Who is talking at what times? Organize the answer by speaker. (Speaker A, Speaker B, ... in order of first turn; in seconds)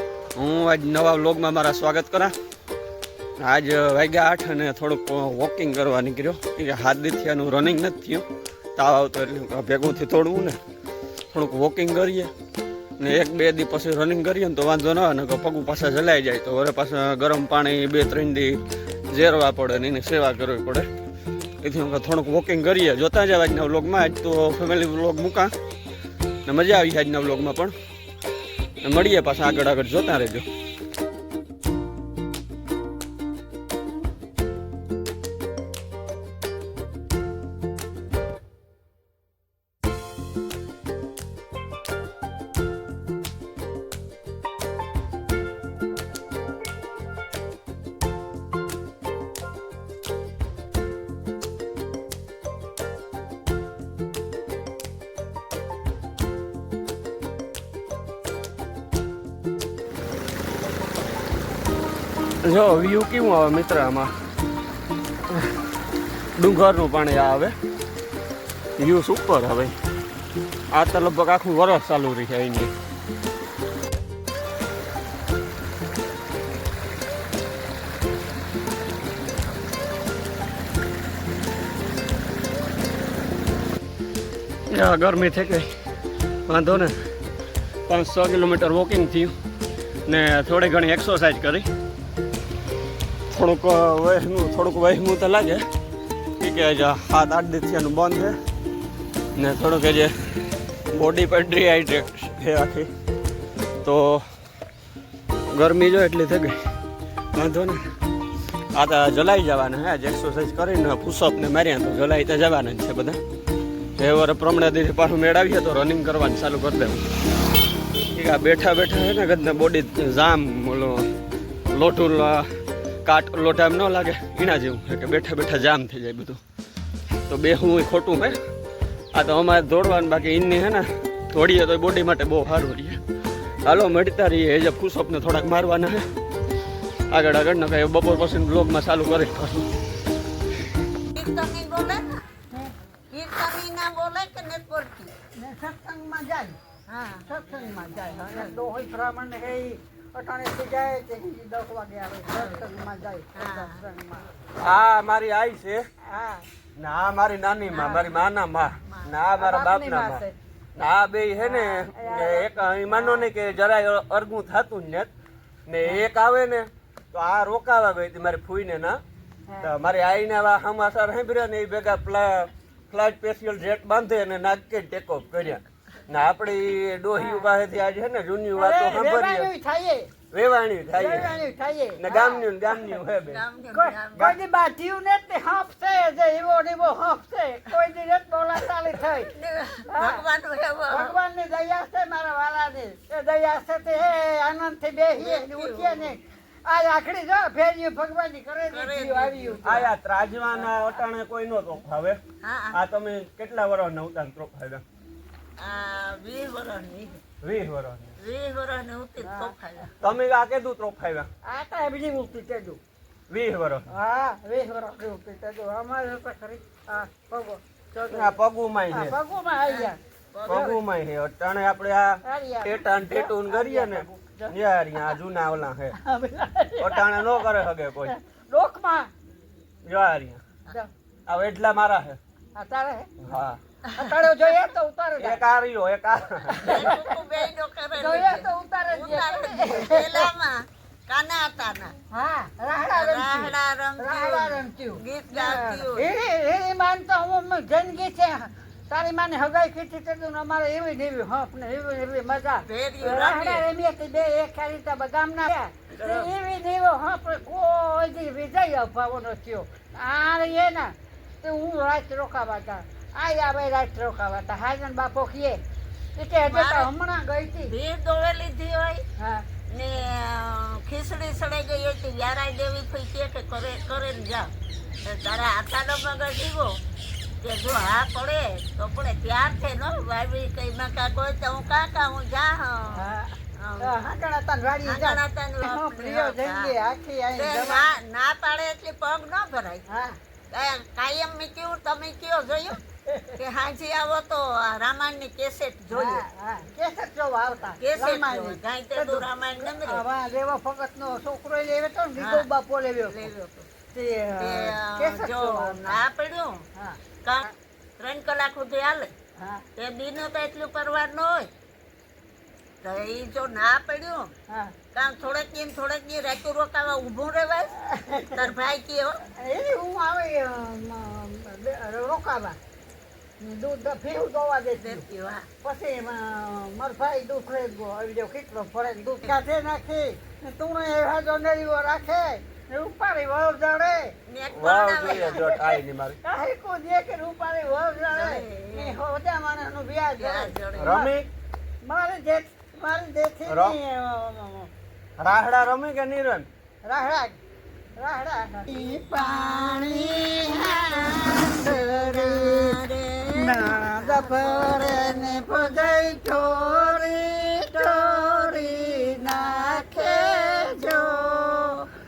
Speaker A: 0.3-2.3, 3.4-8.2, 8.8-10.6, 11.3-12.3, 13.0-20.9, 21.6-25.5, 26.4-27.7, 28.8-30.4, 62.4-64.1, 66.3-67.5, 68.8-69.7, 70.7-72.7, 84.7-85.7, 86.5-86.9, 87.9-89.3, 90.1-91.7, 93.3-95.6, 96.4-98.3, 99.3-100.1, 100.9-102.9, 103.8-104.2, 105.5-106.6, 107.3-107.8, 108.7-113.2, 114.0-117.0, 118.1-121.1, 121.7-122.5, 123.0-126.4, 127.3-128.3, 129.1-133.0, 133.6-136.0, 137.1-139.7, 154.6-155.8, 156.8-165.1, 165.7-169.0, 169.6-179.5, 180.3-181.4, 182.0-183.4, 199.6-202.2, 202.7-204.8, 207.4-208.1, 210.0-211.3, 213.3-213.9, 218.0-219.2, 220.4-226.0, 226.8-228.1, 229.8-230.4, 231.3-232.2, 233.2-233.6, 235.2-236.7, 334.5-336.2, 340.8-341.3, 343.5-343.8, 345.2-346.5
Speaker B: 141.1-142.2, 143.1-145.1, 146.9-147.3, 152.3-152.7, 153.3-153.8, 157.7-158.2, 158.8-159.1, 183.2-184.3, 189.2-191.2, 195.1-196.1, 198.7-199.6, 202.4-202.8, 205.6-207.2, 208.2-210.0, 219.7-220.7, 236.6-241.9, 242.9-246.1, 252.6-253.6, 255.9-256.3, 266.4-266.9, 267.6-269.0, 269.7-274.5, 275.0-276.8, 277.4-283.1, 283.6-284.0, 284.8-286.7, 287.3-289.8, 290.5-292.8, 293.3-296.2, 297.8-300.0, 302.2-302.5, 303.1-303.7, 304.4-306.6, 307.2-309.1, 309.8-311.5, 312.8-314.3, 314.9-317.8, 318.3-319.2, 324.8-325.5, 334.3-335.6, 338.1-339.0, 340.2-341.0, 348.8-355.6, 356.2-361.9
Speaker C: 145.4-146.6, 147.2-154.2, 156.1-156.4, 159.3-160.3, 161.4-163.3, 177.1-177.5, 178.5-180.1, 180.9-183.0, 183.7-189.3, 189.9-190.2, 190.9-199.9, 209.2-209.5, 211.4-212.8, 213.9-218.3, 218.9-220.8, 222.2-224.5, 226.0-227.5, 228.0-229.1, 232.6-233.1, 233.9-235.4, 236.5-237.1, 237.9-240.3, 242.1-265.6, 266.2-267.7, 269.2-269.4, 282.9-287.9, 289.9-290.2, 293.1-293.4, 295.9-303.3, 303.9-306.0, 309.4-309.6, 314.5-314.7, 317.8-318.4, 319.4-322.6, 323.4-325.0, 325.6-334.1, 335.1-341.1, 341.8-344.7, 346.8-347.4, 348.0-352.8, 353.3-361.6